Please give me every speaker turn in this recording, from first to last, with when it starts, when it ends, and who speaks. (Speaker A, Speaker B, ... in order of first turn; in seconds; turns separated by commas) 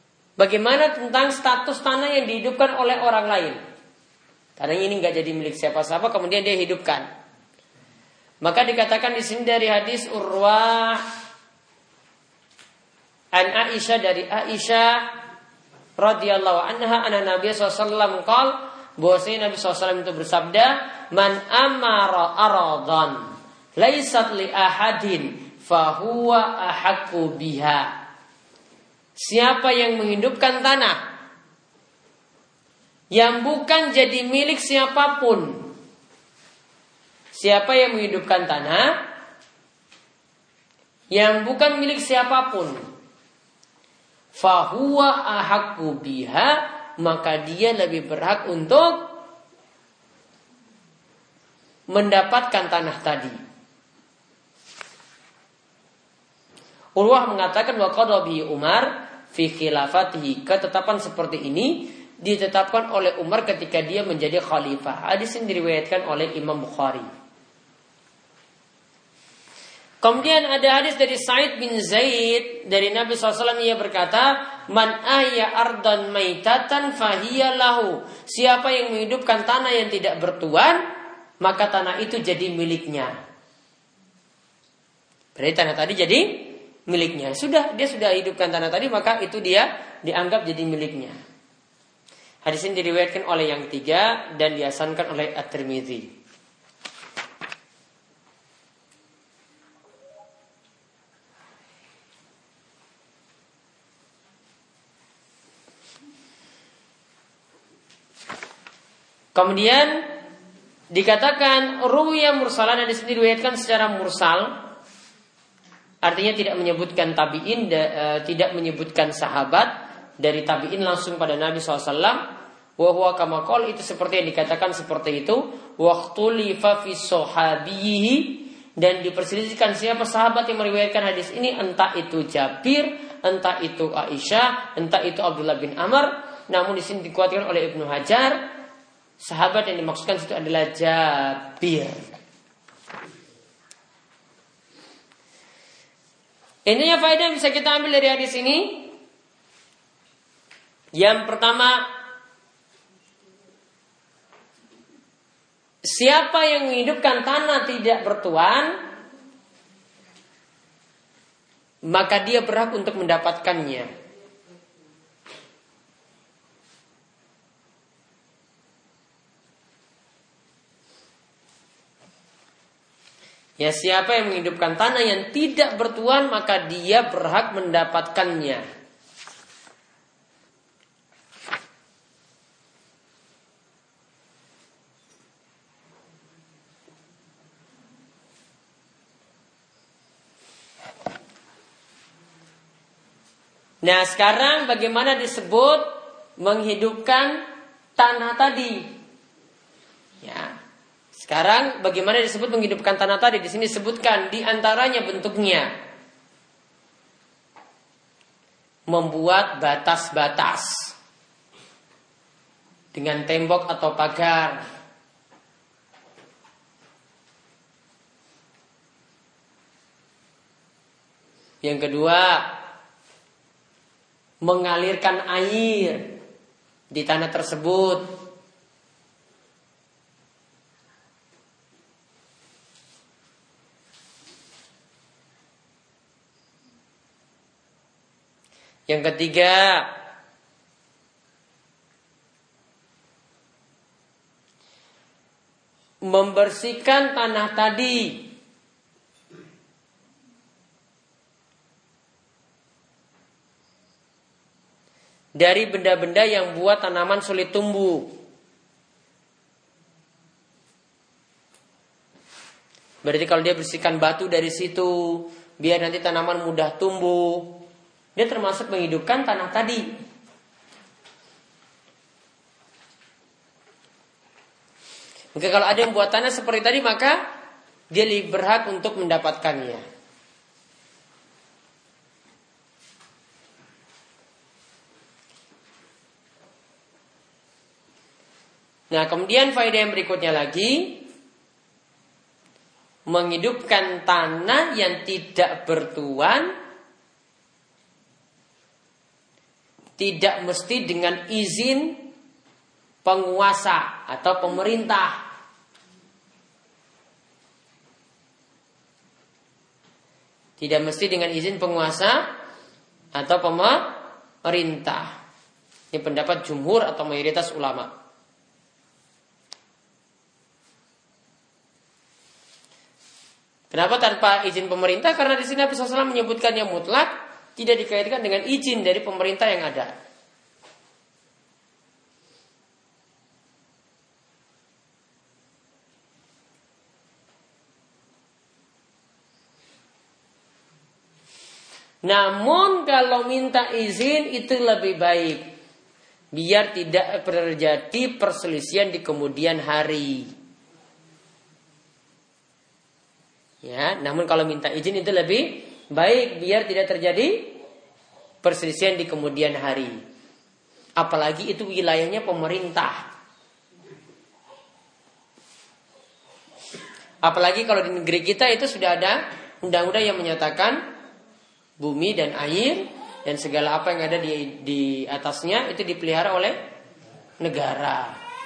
Speaker A: 0.4-3.6, Speaker A: 4.6-7.1, Speaker A: 8.4-11.0, Speaker A: 13.3-15.1, Speaker A: 16.0-23.3, Speaker A: 23.8-27.9, Speaker A: 29.2-31.0, Speaker A: 33.1-35.7, Speaker A: 37.3-38.9, Speaker A: 41.1-42.8, Speaker A: 44.4-49.0, Speaker A: 51.9-53.4, Speaker A: 57.0-67.1, Speaker A: 70.0-80.8, Speaker A: 81.4-83.2, Speaker A: 85.4-91.2, Speaker A: 92.4-96.1, Speaker A: 109.3-110.0, Speaker A: 110.9-114.6, Speaker A: 116.0-122.2, Speaker A: 122.8-138.4, Speaker A: 139.2-142.0, Speaker A: 146.7-148.9, Speaker A: 150.9-151.8, Speaker A: 155.8-158.8, Speaker A: 161.9-163.9, Speaker A: 173.6-178.6, Speaker A: 193.8-197.4, Speaker A: 198.0-198.9, Speaker A: 200.2-200.6, Speaker A: 201.2-205.7, Speaker A: 208.9-210.9, Speaker A: 212.9-214.7, Speaker A: 221.6-222.4, Speaker A: 224.4-226.1, Speaker A: 226.9-228.1, Speaker A: 238.9-239.9, Speaker A: 246.1-248.3, Speaker A: 255.4-258.1, Speaker A: 263.0-267.6, Speaker A: 268.2-269.8, Speaker A: 275.4-277.2, Speaker A: 277.9-279.8, Speaker A: 288.9-291.1, Speaker A: 293.1-296.5, Speaker A: 300.0-302.1, Speaker A: 303.1-305.2, Speaker A: 310.6-312.2, Speaker A: 313.1-315.2, Speaker A: 315.9-317.9, Speaker A: 323.7-329.9, Speaker A: 342.0-345.5, Speaker A: 346.3-350.3, Speaker A: 353.6-357.6, Speaker A: 358.4-360.0, Speaker A: 361.0-363.1, Speaker A: 367.2-370.8, Speaker A: 371.8-376.6, Speaker A: 377.4-378.2